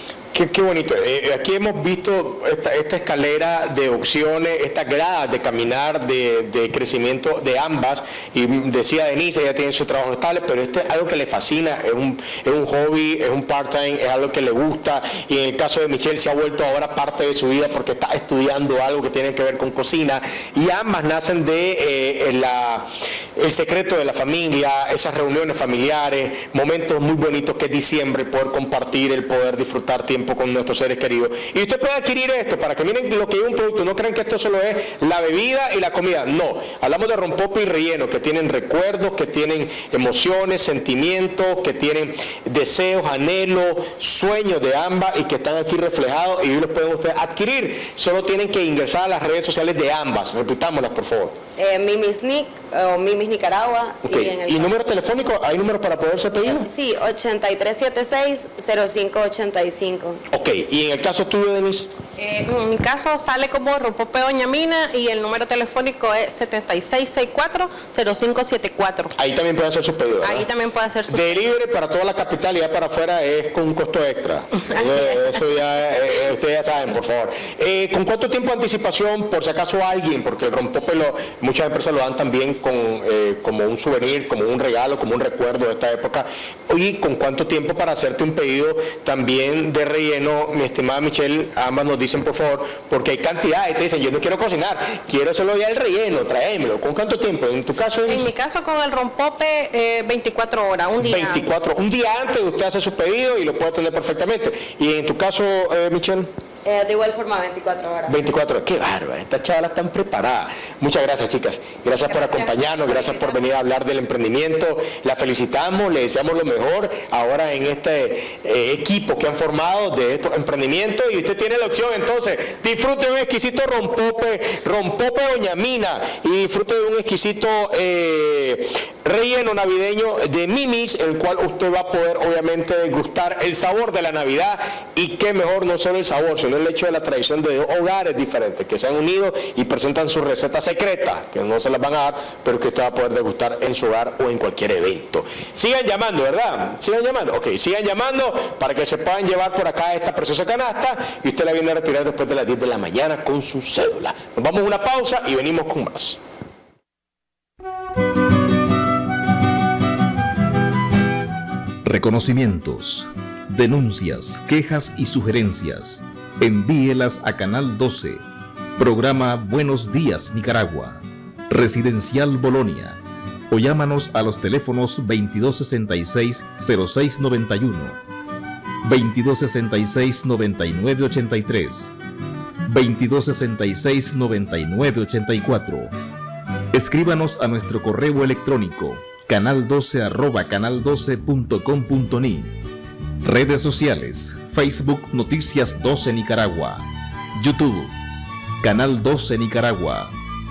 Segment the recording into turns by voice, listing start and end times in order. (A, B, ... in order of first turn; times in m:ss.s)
0:00.3-0:51.4 A
0:51.6-0:55.0 B
0:54.0-0:56.7 A
0:56.4-1:00.2 B
1:00.3-1:01.9 A
1:02.2-1:09.1 C
1:09.2-1:10.4 A
1:10.2-1:11.4 C
1:11.1-1:38.2 A
1:14.7-1:15.4 C
1:38.0-1:41.4 C
1:41.0-1:46.3 A
1:46.6-1:48.2 B
1:48.1-2:36.2 A
1:52.1-1:52.7 C
1:53.1-1:53.3 B
2:41.8-2:48.2 D
2:48.8-2:58.0 D
2:58.8-3:01.9 D
3:02.6-3:05.9 D
3:06.7-3:12.5 D
3:13.2-3:17.9 D
3:18.6-3:20.1 D